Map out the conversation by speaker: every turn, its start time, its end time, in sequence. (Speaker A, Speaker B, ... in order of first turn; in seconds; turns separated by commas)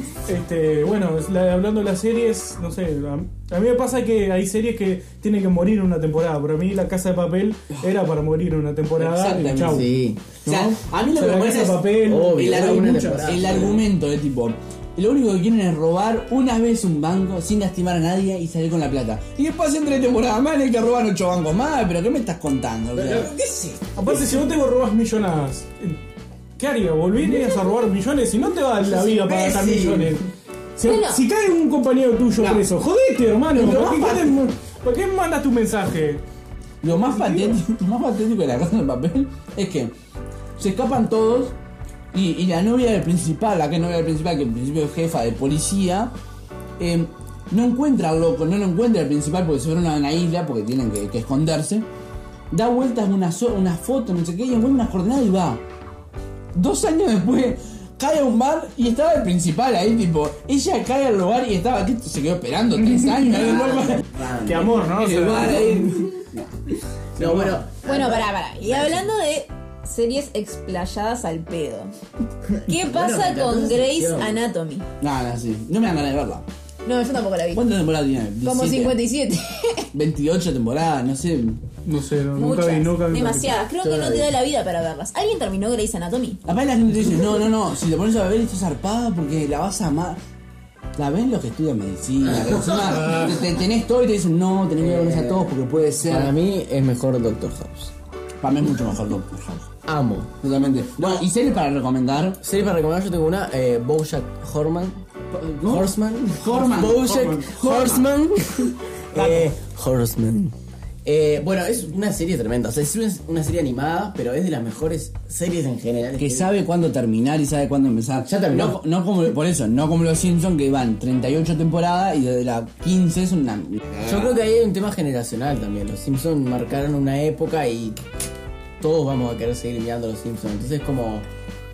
Speaker A: 0.2-9.9, Speaker B: 8.9-9.9, Speaker C: 9.7-10.4, Speaker B: 10.4-23.5, Speaker A: 10.4-13.4, Speaker C: 12.0-13.8, Speaker C: 22.9-23.8, Speaker A: 23.9-26.0, Speaker A: 26.6-36.2, Speaker C: 28.9-30.2, Speaker D: 30.8-31.2, Speaker B: 32.4-32.6, Speaker B: 33.5-34.3, Speaker B: 36.8-39.9, Speaker A: 36.9-37.6, Speaker B: 40.6-41.5, Speaker B: 42.1-46.1, Speaker B: 46.8-51.9, Speaker B: 52.5-55.6, Speaker B: 56.5-64.0, Speaker A: 63.1-66.1, Speaker C: 63.4-64.8, Speaker B: 64.8-66.5, Speaker C: 67.2-69.0, Speaker A: 67.2-67.6, Speaker D: 67.8-71.9, Speaker C: 72.5-74.4, Speaker D: 72.6-74.8, Speaker B: 75.0-76.4, Speaker D: 76.8-77.6, Speaker B: 77.5-78.9, Speaker D: 78.4-79.9, Speaker B: 79.9-81.6, Speaker A: 81.8-83.6, Speaker D: 82.3-86.4, Speaker C: 83.8-84.3, Speaker B: 86.4-90.2, Speaker B: 91.0-96.3, Speaker C: 92.4-93.2, Speaker C: 94.8-97.9, Speaker B: 98.4-99.7, Speaker C: 99.9-100.3, Speaker B: 100.4-102.4, Speaker C: 101.0-101.3, Speaker C: 102.4-105.0, Speaker B: 105.3-108.1, Speaker C: 105.6-110.5, Speaker A: 106.9-107.5, Speaker A: 109.1-109.5, Speaker C: 111.0-116.5, Speaker B: 116.2-124.4, Speaker C: 118.2-118.8, Speaker C: 124.0-128.0, Speaker C: 128.8-131.3